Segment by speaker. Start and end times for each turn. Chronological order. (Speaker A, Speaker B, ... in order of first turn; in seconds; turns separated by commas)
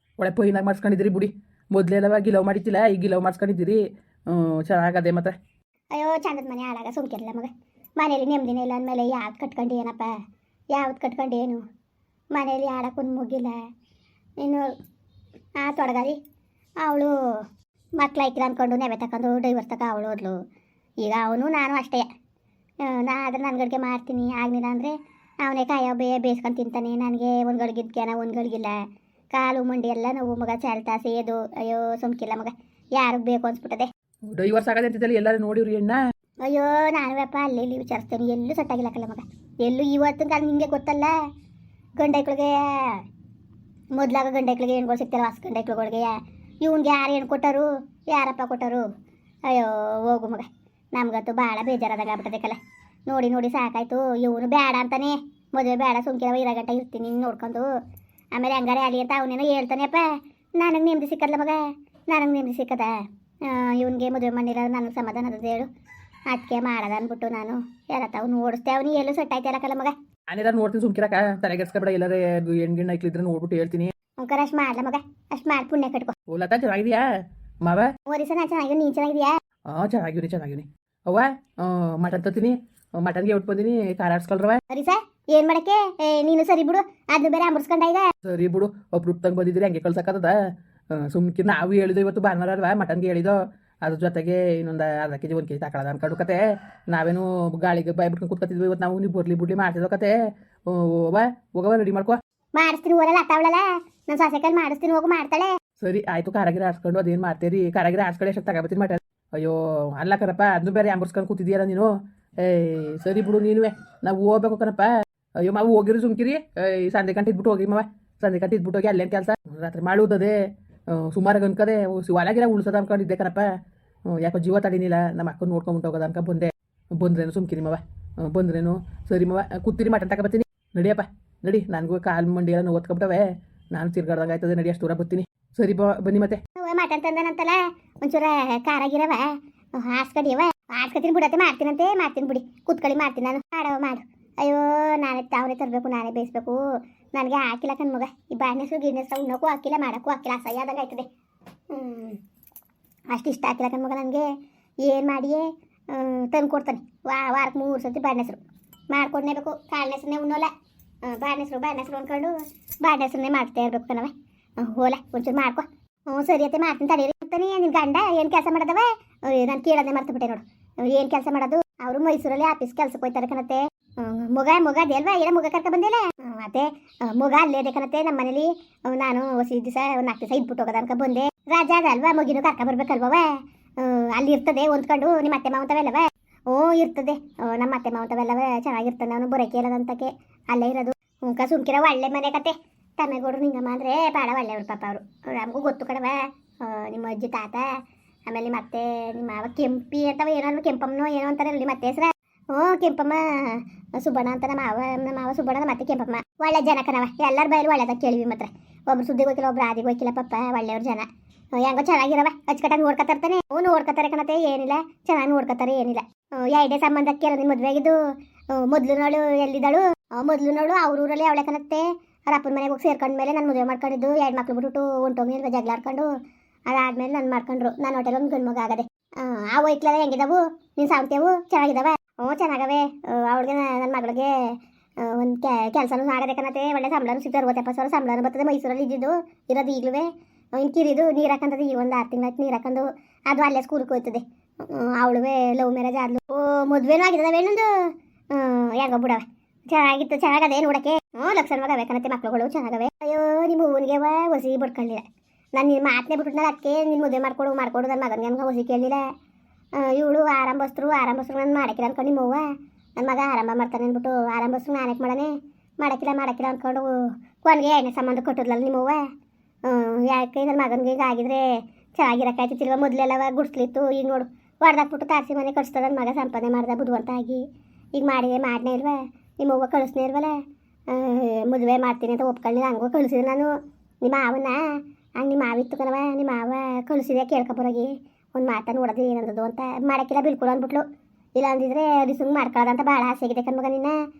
Speaker A: 0.2-5.3, Speaker B: 5.9-10.1, Speaker B: 10.7-11.6, Speaker B: 12.3-13.6, Speaker B: 14.4-14.7, Speaker B: 15.6-16.2, Speaker B: 16.8-17.4, Speaker B: 18.0-20.4, Speaker B: 21.0-22.1, Speaker B: 22.8-28.8, Speaker B: 29.3-33.9, Speaker A: 34.3-36.0, Speaker B: 36.4-41.1, Speaker B: 42.0-43.0, Speaker B: 44.0-48.9, Speaker B: 49.5-57.7, Speaker B: 58.3-65.7, Speaker B: 66.3-69.9, Speaker A: 70.3-73.9, Speaker B: 74.2-76.1, Speaker A: 76.3-77.1, Speaker A: 77.6-77.9, Speaker B: 78.1-79.4, Speaker A: 79.7-84.6, Speaker B: 84.7-88.0, Speaker A: 88.2-90.3, Speaker A: 90.9-100.1, Speaker A: 100.7-102.2, Speaker B: 102.6-105.5, Speaker A: 105.8-120.3, Speaker A: 120.9-123.5, Speaker A: 124.1-136.4, Speaker B: 136.6-146.6, Speaker B: 147.1-151.1, Speaker B: 151.7-152.2, Speaker B: 153.1-154.3, Speaker B: 154.8-160.5, Speaker B: 161.0-197.7, Speaker B: 198.3-218.0, Speaker B: 218.5-226.1, Speaker B: 226.7-255.0, Speaker B: 255.6-259.0, Speaker B: 259.8-262.5, Speaker B: 263.0-269.0, Speaker B: 269.6-277.4, Speaker B: 277.9-280.3, Speaker B: 280.9-284.6, Speaker B: 285.2-290.8, Speaker B: 291.4-293.9